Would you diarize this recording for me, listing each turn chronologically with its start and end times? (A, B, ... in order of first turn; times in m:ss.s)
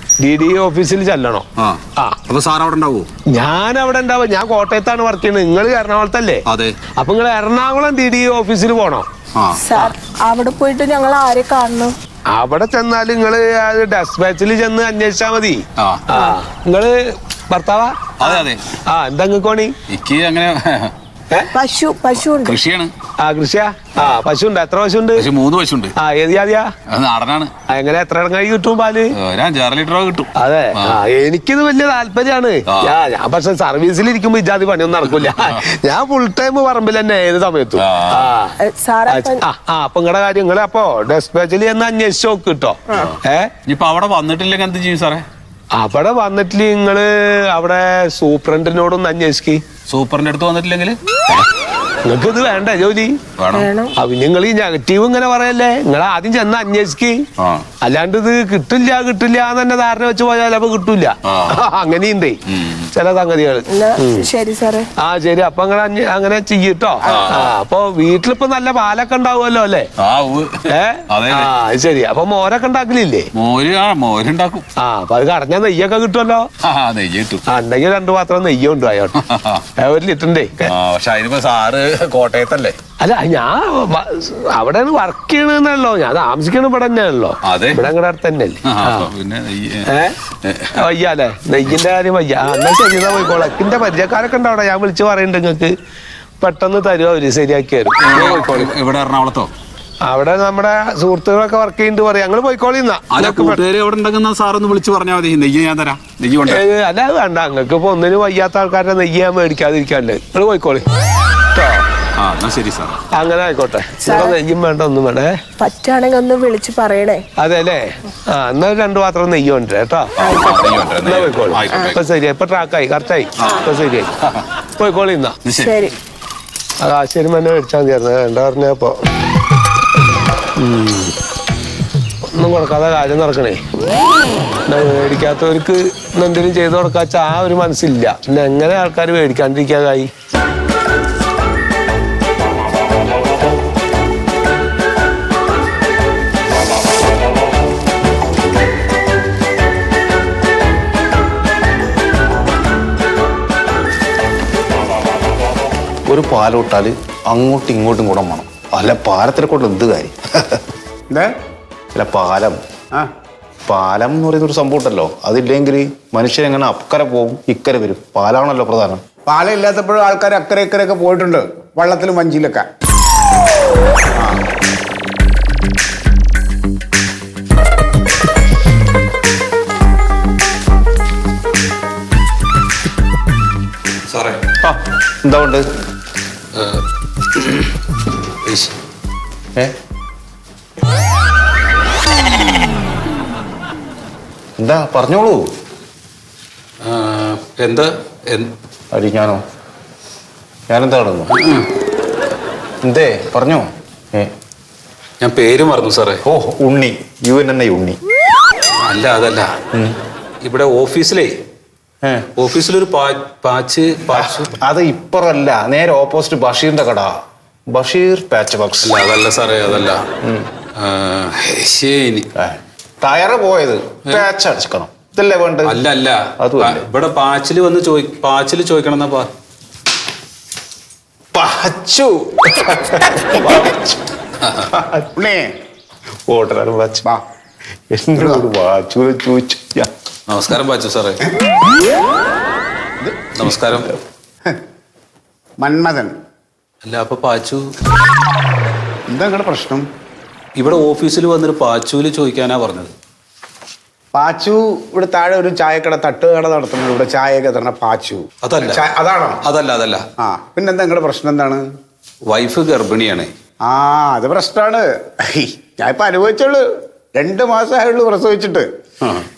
0:00.2-0:01.5 A
0:01.6-0:03.1 B
0:03.3-0:06.4 A
0:06.5-0:06.8 B
0:07.0-0:09.1 A
0:09.4-0:09.7 B
0:09.6-0:12.0 C
0:12.3-0:17.9 A
0:15.8-0:16.1 B
0:16.1-0:16.4 C
0:18.2-0:18.7 B
0:18.9-0:19.8 A
0:19.9-0:20.9 B
0:21.5-0:22.6 C
0:22.4-0:22.9 B
0:23.2-0:25.3 A
0:25.2-0:25.9 B
0:26.0-0:26.7 A
0:26.9-0:27.5 B
0:27.7-0:29.1 A
0:29.2-0:31.0 B
0:30.4-0:38.6 A
0:32.7-0:33.0 B
0:35.2-0:35.6 B
0:37.8-0:38.3 B
0:38.6-0:39.4 C
0:39.1-0:43.5 A
0:43.7-0:45.3 B
0:45.7-0:49.6 A
0:49.9-0:51.0 B
0:52.0-0:53.2 A
0:53.4-0:53.7 B
0:53.5-0:53.9 C
0:54.0-0:57.2 A
0:57.4-0:57.7 B
0:57.8-1:04.3 A
1:01.3-1:01.6 B
1:02.5-1:02.9 B
1:03.7-1:04.9 C
1:05.0-1:09.9 A
1:07.0-1:07.4 D
1:07.0-1:07.5 B
1:10.0-1:10.6 B
1:10.7-1:13.3 A
1:11.1-1:11.5 B
1:13.4-1:14.6 B
1:14.8-1:16.5 A
1:16.6-1:17.4 B
1:17.5-1:19.2 A
1:19.2-1:19.6 B
1:19.8-1:20.7 A
1:20.6-1:22.8 B
1:23.0-1:29.1 A
1:27.4-1:27.8 B
1:28.6-1:29.9 B
1:29.9-1:30.2 A
1:30.4-1:30.8 B
1:30.8-1:35.8 A
1:36.4-1:38.7 A
1:38.0-1:39.5 B
1:40.0-1:43.6 A
1:43.1-1:46.6 B
1:46.5-1:50.8 A
1:51.5-1:51.8 A
1:52.2-1:53.0 B
1:53.1-1:55.4 A
1:54.0-1:54.4 C
1:55.6-1:57.2 C
1:57.4-2:00.1 A
2:00.2-2:02.0 B
2:01.0-2:04.1 A
2:03.4-2:03.7 B
2:04.8-2:05.4 A
2:05.4-2:05.9 B
2:05.6-2:06.0 C
2:06.8-2:09.0 A
2:10.6-2:11.1 A
2:12.3-2:13.6 A
2:14.7-2:20.1 A
2:36.1-2:40.6 E
2:41.9-2:42.6 E
2:43.7-2:49.0 E
2:49.3-2:52.7 D
3:04.1-3:04.4 B
3:04.6-3:05.7 E
3:06.5-3:06.8 B
3:07.4-3:07.7 B
3:08.4-3:08.8 B
3:14.6-3:15.4 E
3:16.8-3:18.5 B
3:18.9-3:19.4 E
3:20.7-3:21.3 E
3:21.3-3:21.7 B
3:22.8-3:24.3 E
3:25.2-3:26.2 B
3:26.2-3:28.0 E
3:28.8-3:29.5 B
3:30.4-3:31.3 B
3:32.0-3:32.3 E
3:32.4-3:34.6 B
3:34.4-3:37.1 E
3:37.7-3:39.0 E
3:38.8-3:40.0 B
3:40.2-3:40.5 E
3:40.8-3:42.3 B
3:42.4-3:45.8 E
3:45.6-3:49.3 B
3:46.4-3:46.8 E
3:51.3-3:54.0 E
3:54.4-3:54.7 B
3:54.7-3:55.1 E
3:55.2-3:55.5 D
3:56.3-3:57.0 E
3:57.9-3:59.9 E
3:58.2-3:58.5 D
4:00.3-4:01.2 B
4:03.3-4:03.9 B
4:05.6-4:06.1 D
4:06.8-4:07.6 B
4:09.1-4:09.8 D
4:10.6-4:12.9 B
4:14.1-4:19.4 D
4:18.4-4:18.8 B
4:19.4-4:20.0 B
4:20.2-4:21.6 D
4:22.3-4:23.3 B
4:23.6-4:26.6 D
4:27.2-4:28.7 D
4:29.0-4:29.3 B